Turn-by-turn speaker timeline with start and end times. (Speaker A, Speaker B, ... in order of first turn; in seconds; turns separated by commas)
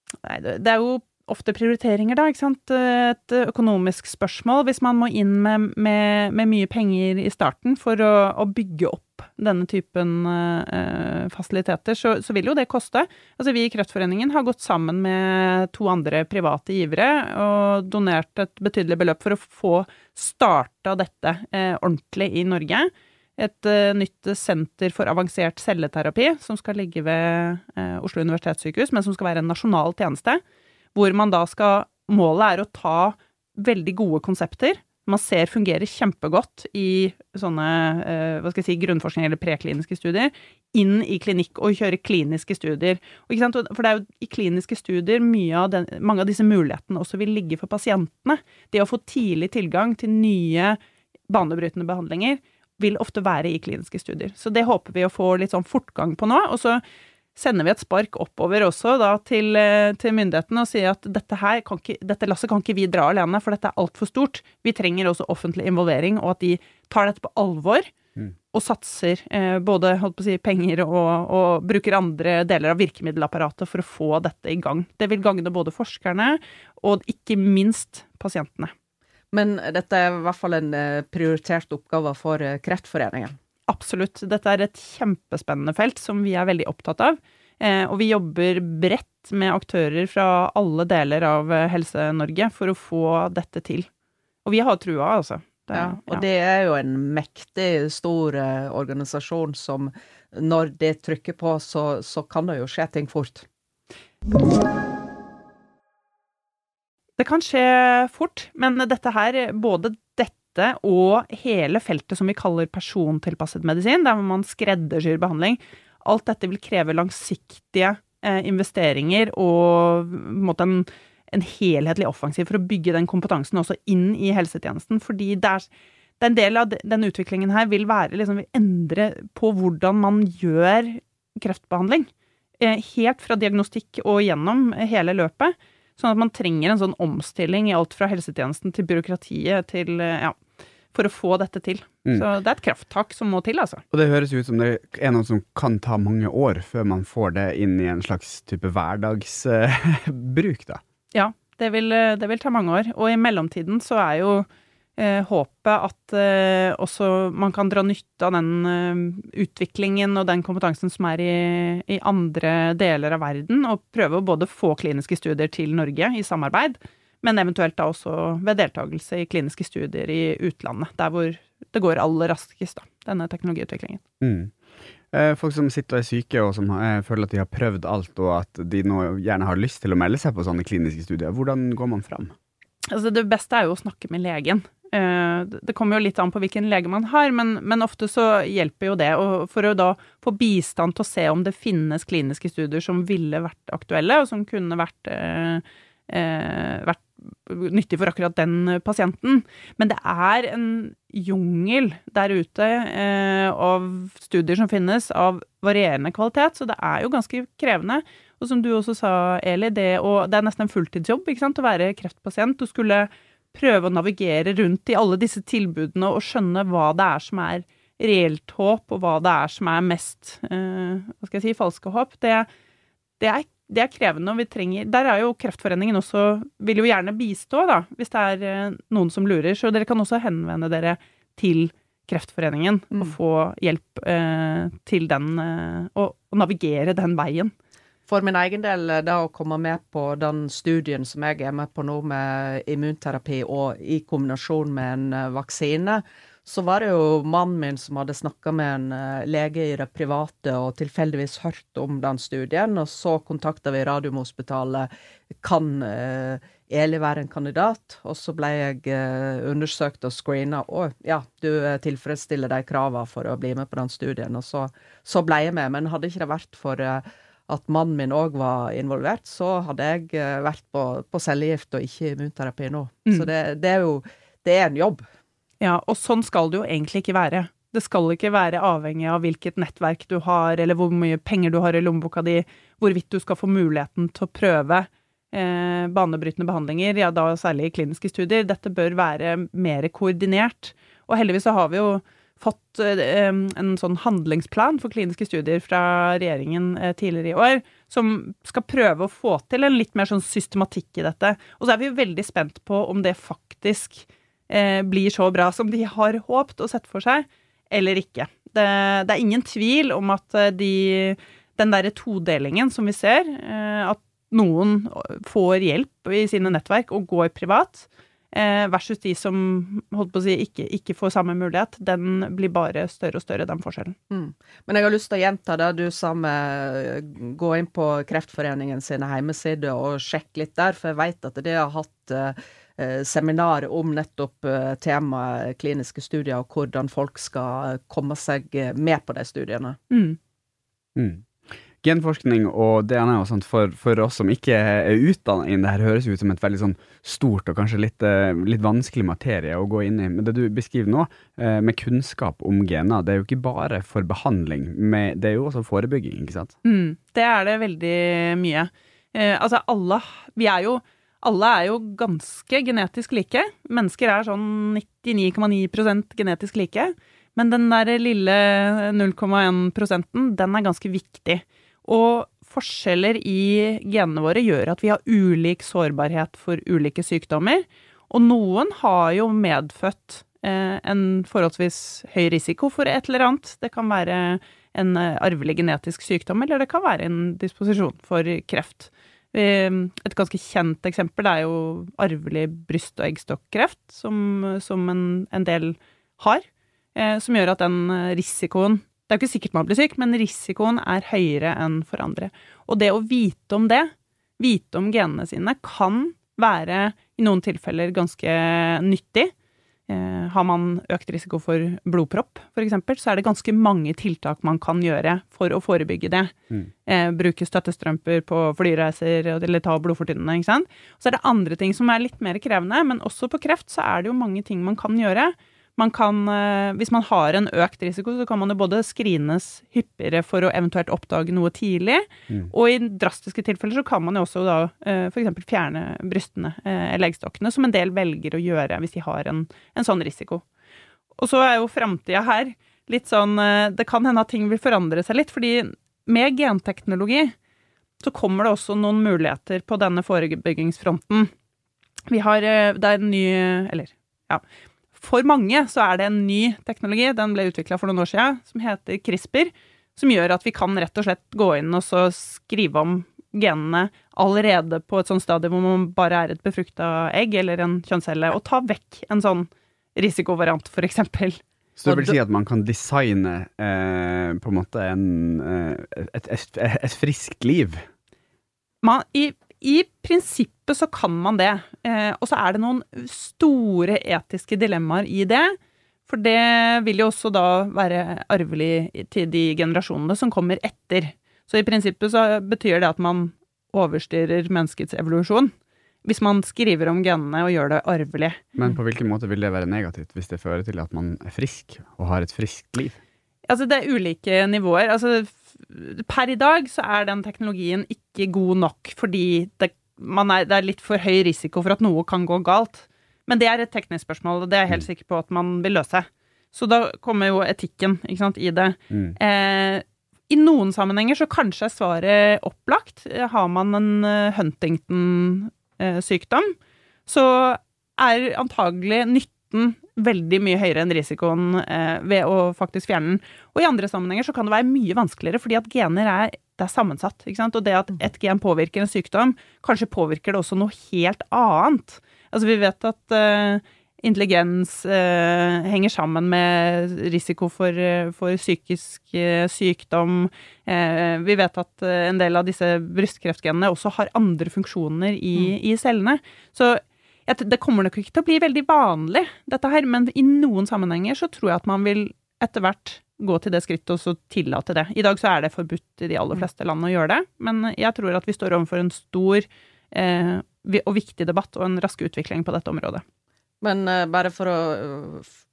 Speaker A: 0.2-30.4, Speaker A: 30.9-56.8, Speaker A: 57.4-67.9, Speaker A: 68.5-78.7, Speaker B: 79.3-83.3, Speaker A: 83.7-93.9, Speaker A: 94.5-96.2, Speaker B: 95.7-103.5, Speaker A: 107.2-125.7, Speaker A: 126.2-140.4, Speaker A: 140.9-143.8, Speaker C: 143.9-150.8, Speaker A: 151.1-174.0, Speaker C: 174.2-182.3, Speaker A: 182.9-222.5, Speaker A: 223.2-237.5, Speaker B: 238.1-275.0, Speaker A: 275.6-323.9, Speaker B: 324.1-339.8, Speaker A: 339.9-340.2, Speaker C: 340.9-356.5, Speaker A: 356.6-396.4, Speaker A: 396.9-409.3, Speaker A: 409.9-416.4, Speaker A: 416.9-440.4, Speaker A: 441.2-447.4, Speaker A: 448.0-451.3, Speaker A: 452.1-454.4, Speaker A: 454.9-471.4, Speaker C: 471.8-477.9, Speaker B: 471.9-472.1, Speaker A: 478.8-485.6, Speaker A: 486.1-495.5, Speaker A: 496.0-498.4, Speaker C: 498.6-503.0, Speaker A: 503.5-526.5, Speaker A: 527.1-573.0, Speaker B: 573.6-575.3